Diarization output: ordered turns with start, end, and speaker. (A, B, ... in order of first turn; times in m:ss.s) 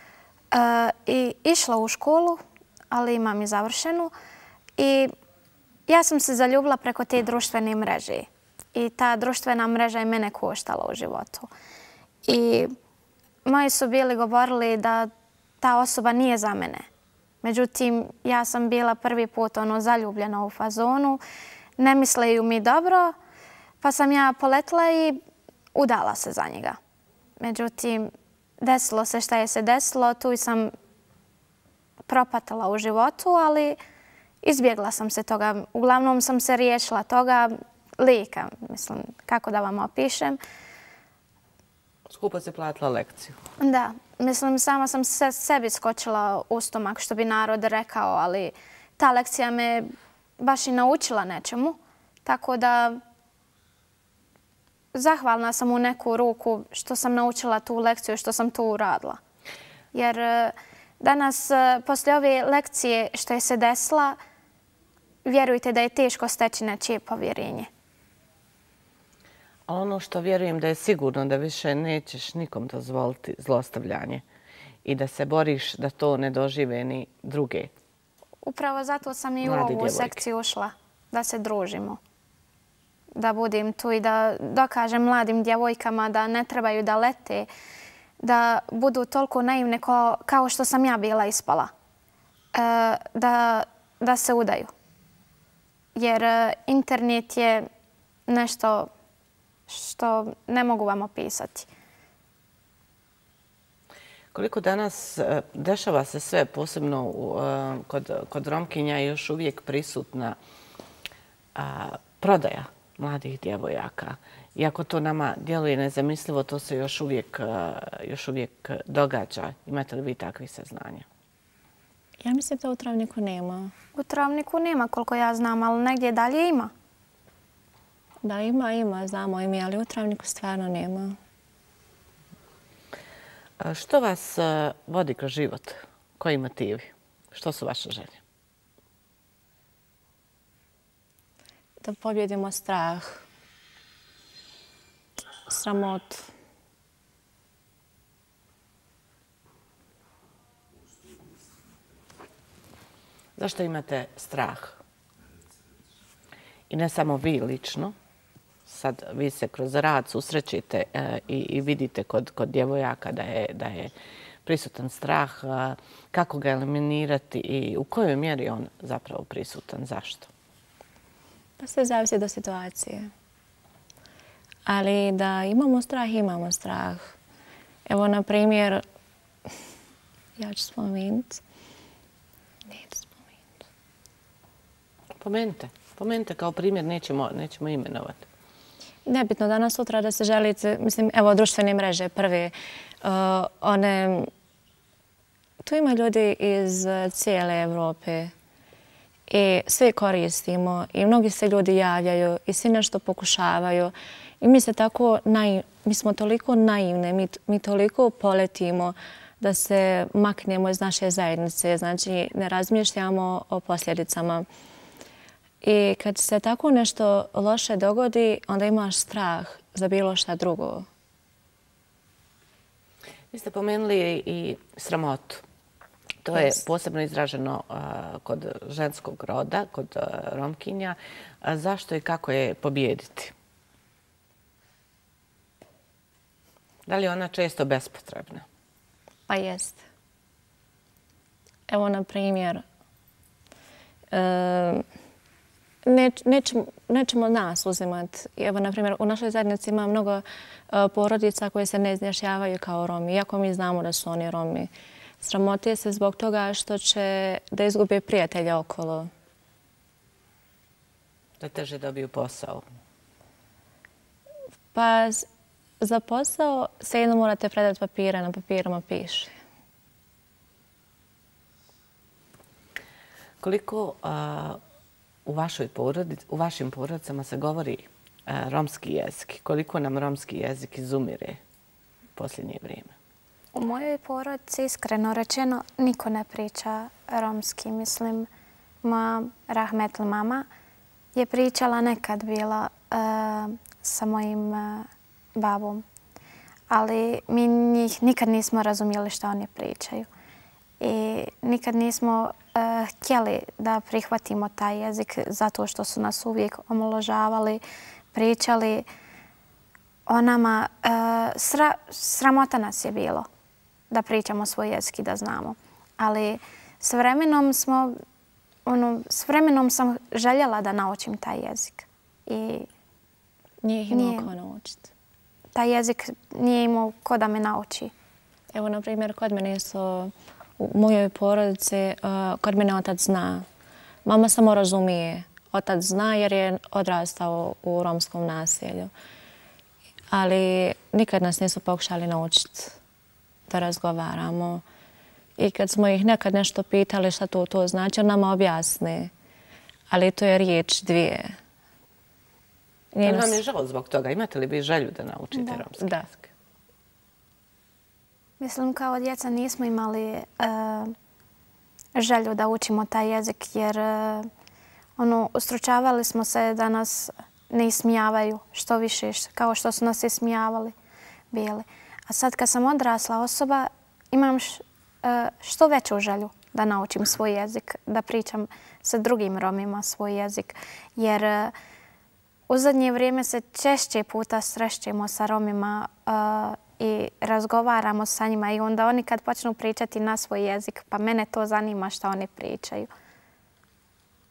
0:00.5-0:04.1 A
0:04.8-0:05.1 A
0:05.9-0:11.5 A
0:12.2-0:12.7 A
0:13.4-0:16.8 A
0:17.4-0:21.2 A
0:21.8-0:23.1 A
0:23.8-0:25.2 A
0:25.7-0:26.8 A
0:27.4-0:30.7 A
0:32.1-0:33.8 A
0:34.4-0:40.4 A
0:42.1-0:43.4 B
0:43.6-0:53.0 A
0:54.9-0:59.2 A
0:59.9-1:04.2 A
1:05.2-1:07.7 A
1:09.7-1:14.2 B
1:14.8-1:17.7 B
1:18.4-1:22.0 A
1:19.4-1:20.2 B
1:23.1-1:27.5 A
1:28.2-1:31.7 A
1:32.5-1:34.7 A
1:35.9-1:37.7 A
1:38.3-1:38.9 A
1:39.7-1:41.7 A
1:44.3-1:50.4 B
1:51.5-2:01.0 B
2:02.2-2:03.7 C
2:03.9-2:06.7 A
2:08.2-2:11.2 C
2:13.6-2:18.2 B
2:21.8-2:23.2 C
2:25.5-2:26.3 C
2:33.4-2:34.8 B
2:36.7-2:37.9 B
2:38.6-2:43.9 B
2:44.4-2:50.3 B
2:51.6-2:53.1 C
2:54.6-2:57.2 C
2:57.9-2:58.8 C
3:00.4-3:01.4 C
3:02.7-3:03.6 C
3:05.2-3:08.3 B
3:09.1-3:14.3 C
3:15.6-3:18.3 C
3:19.3-3:34.4 C
3:35.6-3:40.9 C
3:43.3-3:45.4 B
3:46.2-3:53.3 B
3:56.8-3:58.4 B
3:59.3-3:59.8 C
4:01.7-4:02.6 C
4:04.1-4:04.8 C
4:05.8-4:19.1 C
4:21.4-4:22.6 B
4:24.7-4:25.3 C
4:25.8-4:29.3 C
4:33.4-4:34.6 B
4:35.2-4:41.4 B
4:42.2-4:42.9 B
4:43.5-4:48.3 A
4:48.8-4:50.4 A
4:51.1-4:55.8 A
4:56.7-5:00.1 A
5:00.8-5:07.6 A
5:08.1-5:08.9 A
5:10.1-5:13.3 A
5:13.9-5:18.0 A
5:18.6-5:22.7 A
5:23.6-5:24.9 C
5:23.9-5:24.3 A
5:25.5-5:27.9 A
5:28.5-5:33.4 C
5:34.0-5:38.9 C
5:40.1-5:42.8 C
5:43.5-5:44.6 C
5:45.4-5:49.1 C
5:49.9-5:51.4 C
5:52.9-5:53.4 C
5:53.0-5:56.3 B
5:55.8-5:56.1 C
5:58.4-6:00.9 A
6:01.9-6:04.3 A
6:05.0-6:10.7 A
6:11.3-6:21.5 A
6:22.5-6:32.9 A